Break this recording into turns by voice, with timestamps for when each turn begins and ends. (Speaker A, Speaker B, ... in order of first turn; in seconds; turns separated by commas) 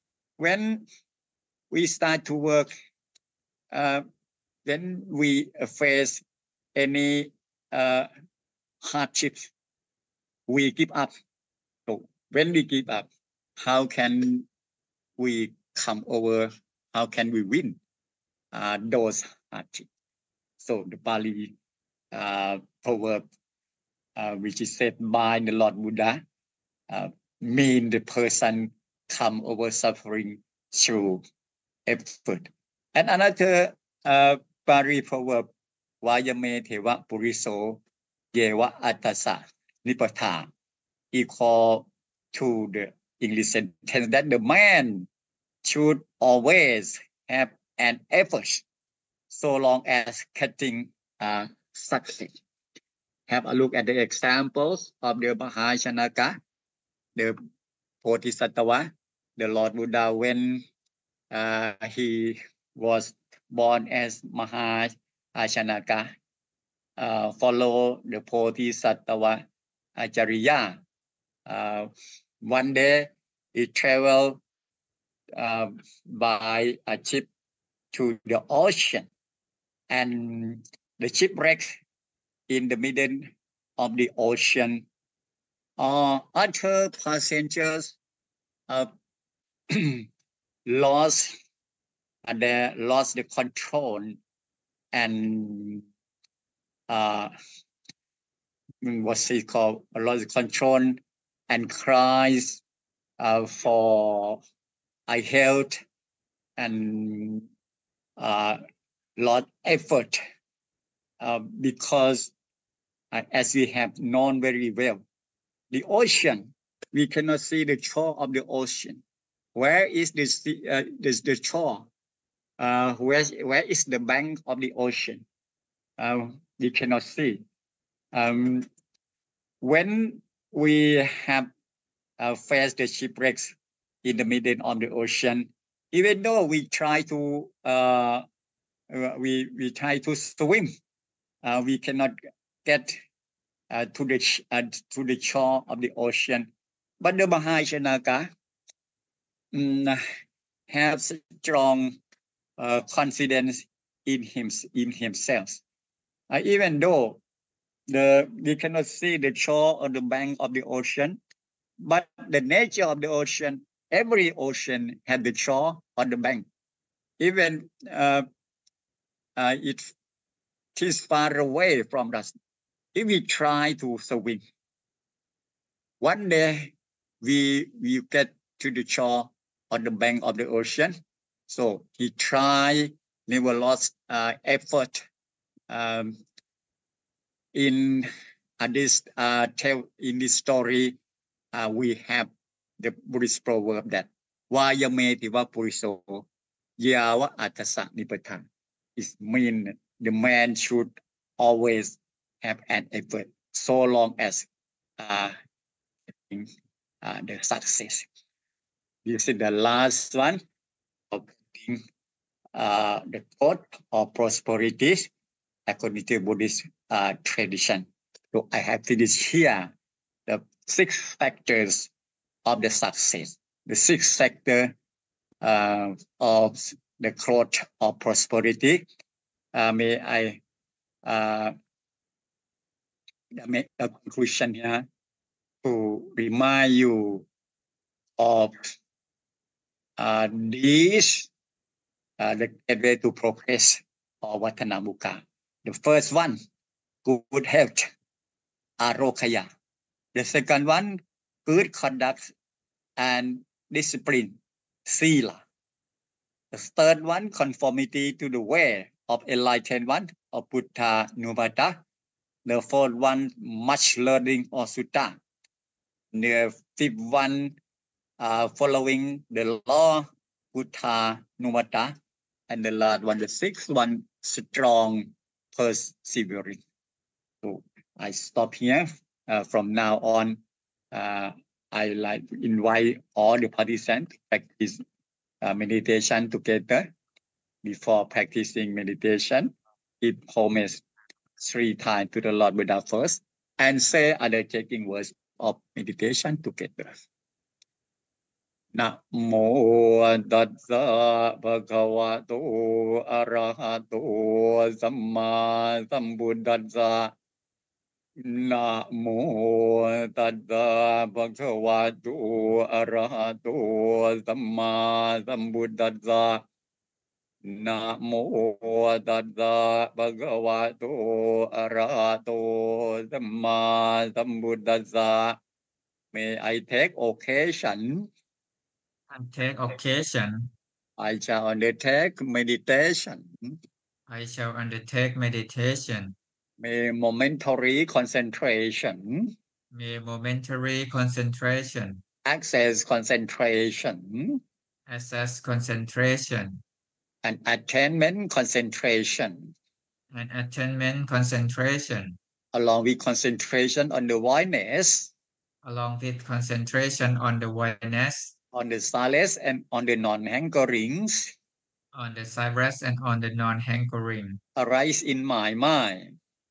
Speaker A: 0.4-0.8, Speaker A: 1.7-2.7, Speaker A: 3.7-4.0, Speaker A: 4.7-6.2, Speaker A: 6.8-8.1, Speaker A: 8.8-9.5, Speaker A: 10.5-11.1, Speaker A: 11.9-13.1, Speaker A: 13.6-14.4, Speaker A: 15.2-17.8, Speaker A: 18.5-19.9, Speaker A: 20.6-21.5, Speaker A: 22.1-23.2, Speaker A: 24.2-26.2, Speaker A: 26.9-31.2, Speaker A: 31.9-35.5, Speaker A: 36.0-37.8, Speaker A: 38.3-40.5, Speaker A: 41.1-45.1, Speaker A: 45.6-48.6, Speaker A: 49.3-52.4, Speaker A: 53.3-56.4, Speaker A: 58.0-60.6, Speaker A: 61.3-66.1, Speaker A: 67.0-69.4, Speaker A: 70.0-70.8, Speaker A: 71.5-71.9, Speaker A: 72.4-74.4, Speaker A: 75.4-77.3, Speaker A: 77.9-79.1, Speaker A: 79.9-81.8, Speaker A: 82.5-84.8, Speaker A: 85.8-88.0, Speaker A: 89.7-90.1, Speaker A: 90.7-91.3, Speaker A: 92.3-94.2, Speaker A: 94.9-95.8, Speaker A: 96.9-97.3, Speaker A: 98.8-102.6, Speaker A: 103.2-104.4, Speaker A: 105.1-105.8, Speaker A: 106.6-107.5, Speaker A: 108.2-108.6, Speaker A: 109.2-110.2, Speaker A: 111.2-112.3, Speaker A: 113.1-115.0, Speaker A: 115.7-119.0, Speaker A: 119.5-121.9, Speaker A: 122.6-125.2, Speaker A: 126.0-127.4, Speaker A: 128.1-128.7, Speaker A: 129.6-131.5, Speaker A: 132.2-138.2, Speaker A: 138.9-140.7, Speaker A: 141.4-142.1, Speaker A: 142.7-143.0, Speaker A: 143.7-146.5, Speaker A: 147.0-148.3, Speaker A: 149.5-150.0, Speaker A: 150.7-151.9, Speaker A: 152.6-155.6, Speaker A: 156.3-157.2, Speaker A: 157.9-161.2, Speaker A: 161.8-166.4, Speaker A: 167.2-168.3, Speaker A: 169.4-169.9, Speaker A: 170.8-172.4, Speaker A: 172.9-174.4, Speaker A: 176.0-181.0, Speaker A: 181.5-185.0, Speaker A: 185.7-186.2, Speaker A: 187.5-188.1, Speaker A: 188.6-191.0, Speaker A: 191.5-196.3, Speaker A: 196.8-198.5, Speaker A: 199.0-204.5, Speaker A: 205.0-205.4, Speaker A: 207.0-208.1, Speaker A: 209.1-210.4, Speaker A: 211.1-211.8, Speaker A: 212.6-215.1, Speaker A: 215.7-219.7, Speaker A: 220.3-221.9, Speaker A: 222.4-224.7, Speaker A: 225.4-228.8, Speaker A: 229.5-230.4, Speaker A: 231.1-231.5, Speaker A: 233.4-234.8, Speaker A: 235.6-237.2, Speaker A: 238.2-238.7, Speaker A: 240.0-241.3, Speaker A: 242.2-246.4, Speaker A: 247.1-247.9, Speaker A: 248.8-249.5, Speaker A: 250.2-252.3, Speaker A: 253.0-254.3, Speaker A: 254.9-255.4, Speaker A: 256.5-261.8, Speaker A: 262.5-265.2, Speaker A: 266.1-267.6, Speaker A: 268.2-271.9, Speaker A: 272.5-276.6, Speaker A: 277.4-280.4, Speaker A: 280.9-284.8, Speaker A: 285.4-286.9, Speaker A: 287.6-290.8, Speaker A: 291.4-296.9, Speaker A: 298.8-307.1, Speaker A: 308.2-316.4, Speaker A: 317.4-325.4, Speaker A: 326.1-328.1, Speaker B: 329.1-330.5, Speaker A: 331.0-333.6, Speaker B: 334.1-336.1, Speaker A: 336.6-339.3, Speaker B: 339.7-342.0, Speaker A: 342.2-344.4, Speaker B: 344.9-346.6, Speaker A: 347.2-349.5, Speaker B: 350.1-352.2, Speaker A: 352.5-355.1, Speaker B: 355.6-358.3, Speaker A: 358.5-361.3, Speaker B: 361.9-364.4, Speaker A: 364.6-366.1